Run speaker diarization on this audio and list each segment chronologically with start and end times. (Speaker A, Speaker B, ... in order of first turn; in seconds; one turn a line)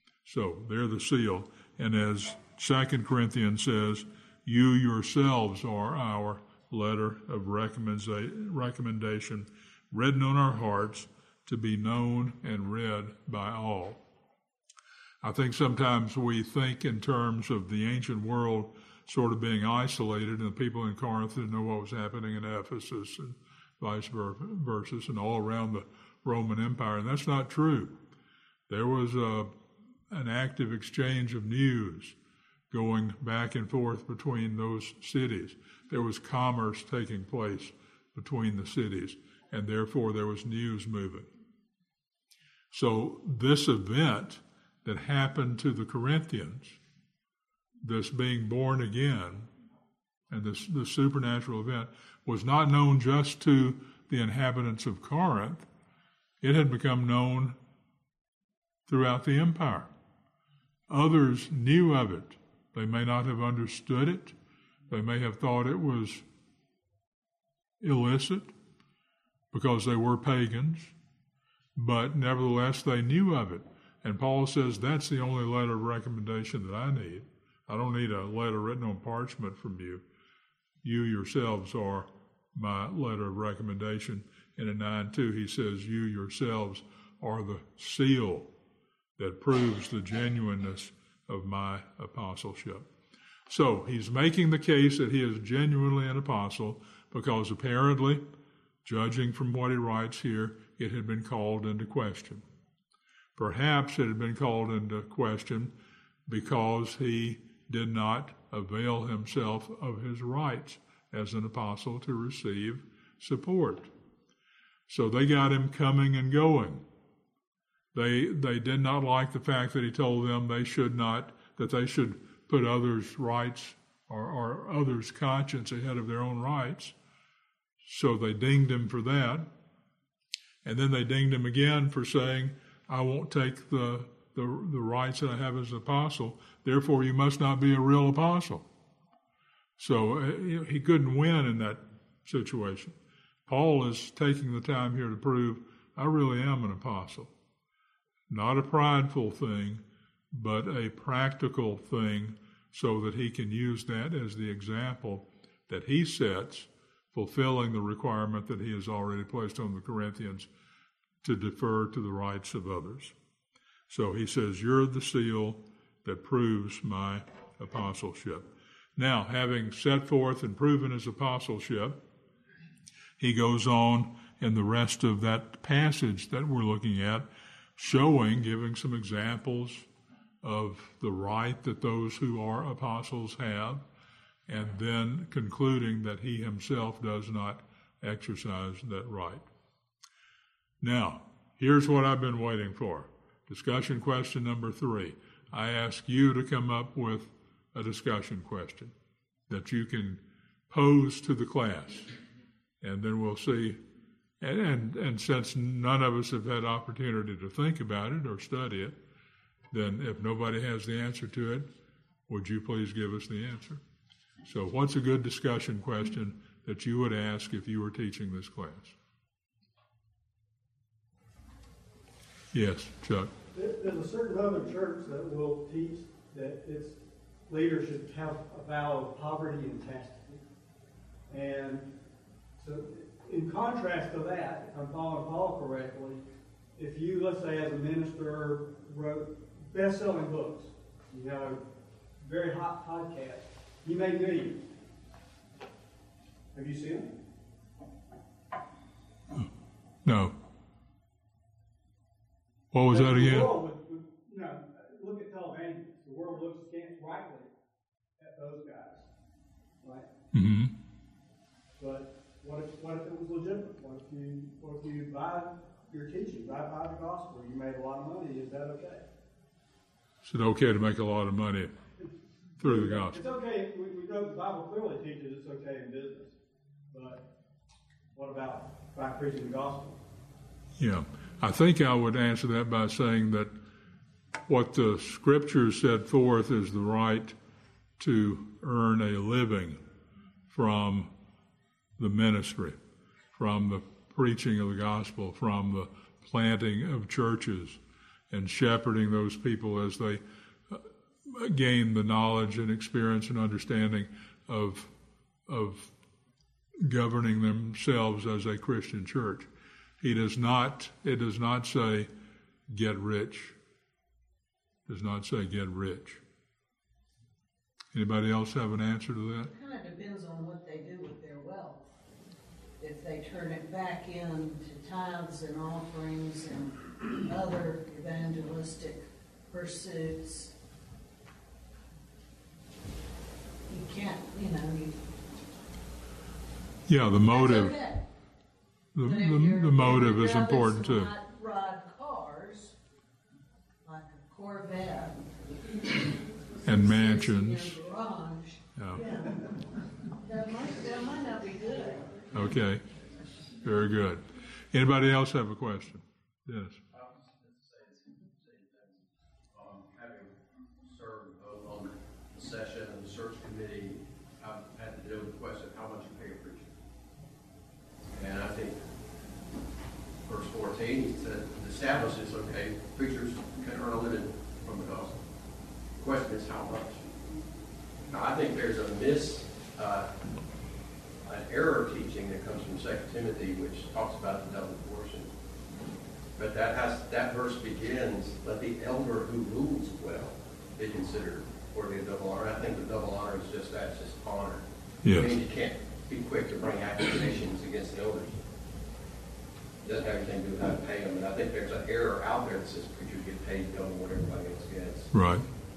Speaker A: 0.2-14.0
Speaker A: 15.2-28.0
Speaker A: 28.7-29.5
Speaker A: 30.1-32.1
Speaker A: 32.7-41.3
Speaker A: 42.7-46.8
Speaker A: 47.8-49.5
Speaker A: 50.3-55.7
Speaker A: 56.4-57.6
Speaker A: 58.9-59.9
Speaker A: 60.9-64.3
Speaker A: 64.9-66.2
Speaker A: 67.8-68.5
Speaker A: 69.5-70.9
Speaker A: 71.8-80.0
Speaker A: 80.8-88.5
Speaker A: 89.2-92.9
Speaker A: 93.5-98.2
Speaker A: 98.8-102.4
Speaker A: 103.3-105.7
Speaker A: 106.3-113.9
Speaker A: 114.9-116.8
Speaker A: 117.9-126.9
Speaker A: 127.8-129.5
Speaker A: 130.6-138.6
Speaker A: 139.8-147.3
Speaker A: 148.3-160.5
Speaker A: 161.2-163.1
Speaker A: 163.9-172.0
Speaker A: 173.2-179.9
Speaker A: 180.4-183.8
Speaker A: 184.5-189.4
Speaker A: 190.8-198.9
Speaker A: 199.5-202.1
Speaker A: 202.8-203.8
Speaker A: 204.4-209.0
Speaker A: 209.7-211.7
Speaker A: 212.3-213.8
Speaker A: 214.4-218.9
Speaker A: 222.5-223.3
Speaker B: 223.5-230.4
Speaker B: 231.3-231.9
Speaker B: 232.6-236.2
Speaker B: 236.8-241.6
Speaker B: 242.2-244.6
Speaker B: 246.5-247.1
Speaker A: 250.0-250.3
Speaker A: 252.7-253.5
Speaker B: 252.9-257.5
Speaker B: 258.2-259.1
Speaker B: 259.8-260.1
Speaker A: 260.3-260.7
Speaker B: 261.8-269.1
Speaker A: 270.2-271.7
Speaker B: 272.0-276.4
Speaker A: 272.6-273.2
Speaker B: 276.9-277.3
Speaker B: 278.1-280.0
Speaker A: 280.8-283.5
Speaker A: 284.5-287.3
Speaker A: 288.0-289.8
Speaker A: 290.5-291.1
Speaker A: 292.0-292.8
Speaker A: 293.3-297.8
Speaker A: 298.3-304.9
Speaker A: 305.5-305.9
Speaker A: 306.8-309.5
Speaker A: 310.0-312.1
Speaker A: 312.7-313.6
Speaker A: 314.9-316.2
Speaker A: 317.9-319.5
Speaker C: 319.5-321.9
Speaker C: 322.8-330.5
Speaker C: 333.7-335.0
Speaker A: 336.9-337.8
Speaker C: 337.2-338.1
Speaker A: 338.9-341.1
Speaker C: 339.0-342.8
Speaker C: 343.8-349.5
Speaker A: 346.6-347.8
Speaker A: 348.7-349.0
Speaker C: 350.2-352.3
Speaker A: 352.3-352.8
Speaker A: 353.6-356.8
Speaker D: 356.9-359.0
Speaker D: 359.5-366.7
Speaker D: 368.1-368.8
Speaker D: 370.2-375.2
Speaker D: 375.9-377.0
Speaker D: 378.1-380.1
Speaker D: 381.2-385.3
Speaker D: 386.4-398.4
Speaker A: 395.0-395.3
Speaker D: 399.8-405.1
Speaker A: 405.1-405.5